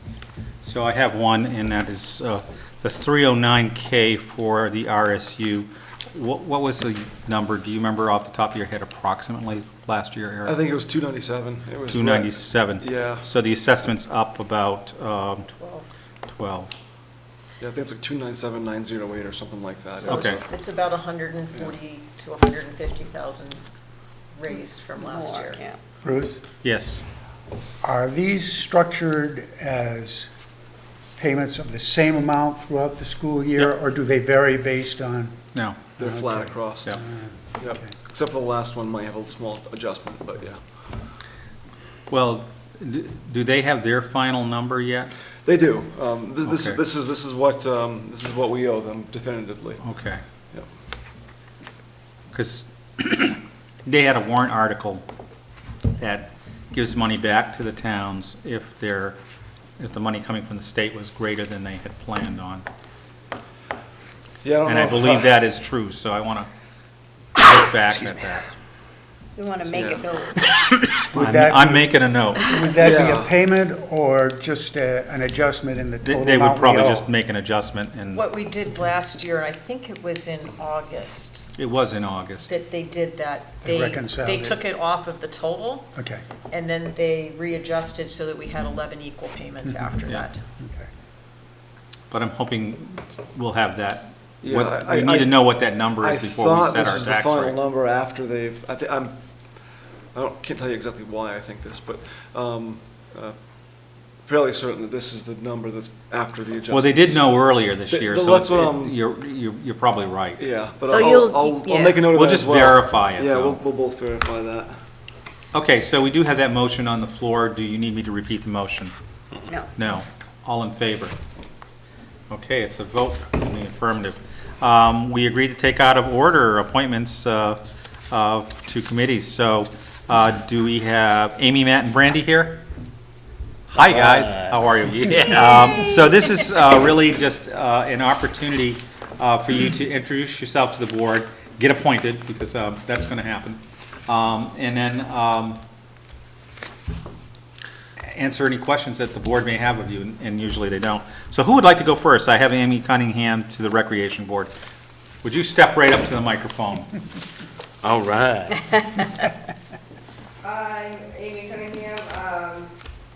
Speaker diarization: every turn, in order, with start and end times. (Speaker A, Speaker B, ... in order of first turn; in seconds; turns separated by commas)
Speaker A: 0.6-10.6, Speaker B: 10.5-13.3, Speaker A: 11.9-15.5, Speaker C: 15.6-15.9, Speaker A: 16.3-16.7, Speaker B: 17.6-20.4, Speaker A: 20.1-20.4, Speaker C: 20.1-23.6, Speaker C: 24.3-25.6, Speaker D: 25.0-25.8, Speaker E: 26.0-26.4, Speaker A: 26.6-27.0, Speaker E: 27.8-30.3, Speaker E: 31.2-35.4, Speaker A: 35.5-35.9, Speaker B: 36.0-37.0, Speaker E: 36.0-37.9, Speaker B: 37.5-41.0, Speaker A: 42.1-45.1, Speaker B: 45.5-49.8, Speaker A: 46.4-46.8, Speaker A: 49.8-50.2, Speaker A: 52.3-55.0, Speaker A: 56.0-59.2, Speaker A: 59.8-62.6, Speaker B: 64.4-65.3, Speaker A: 64.6-66.5, Speaker A: 67.4-68.5, Speaker D: 69.4-70.4, Speaker B: 69.7-70.2, Speaker A: 70.5-72.7, Speaker E: 71.1-77.1, Speaker B: 72.8-73.3, Speaker A: 76.0-78.2, Speaker C: 78.1-81.5, Speaker A: 81.5-82.5, Speaker C: 82.5-85.9, Speaker E: 83.6-84.6, Speaker E: 86.0-86.2, Speaker C: 86.5-90.4, Speaker E: 90.6-90.9, Speaker A: 92.1-97.6, Speaker B: 94.4-95.5, Speaker B: 96.0-99.2, Speaker B: 100.1-103.4, Speaker B: 104.2-109.0, Speaker A: 106.7-110.5, Speaker B: 110.4-114.8, Speaker D: 110.9-111.9, Speaker F: 111.2-112.0, Speaker A: 112.0-113.6, Speaker A: 115.5-118.9, Speaker A: 119.8-121.2, Speaker A: 122.3-127.6, Speaker A: 128.1-132.6, Speaker A: 133.7-145.6, Speaker G: 133.8-135.7, Speaker A: 148.0-154.5, Speaker A: 155.2-156.9, Speaker G: 157.8-158.6, Speaker F: 160.4-162.7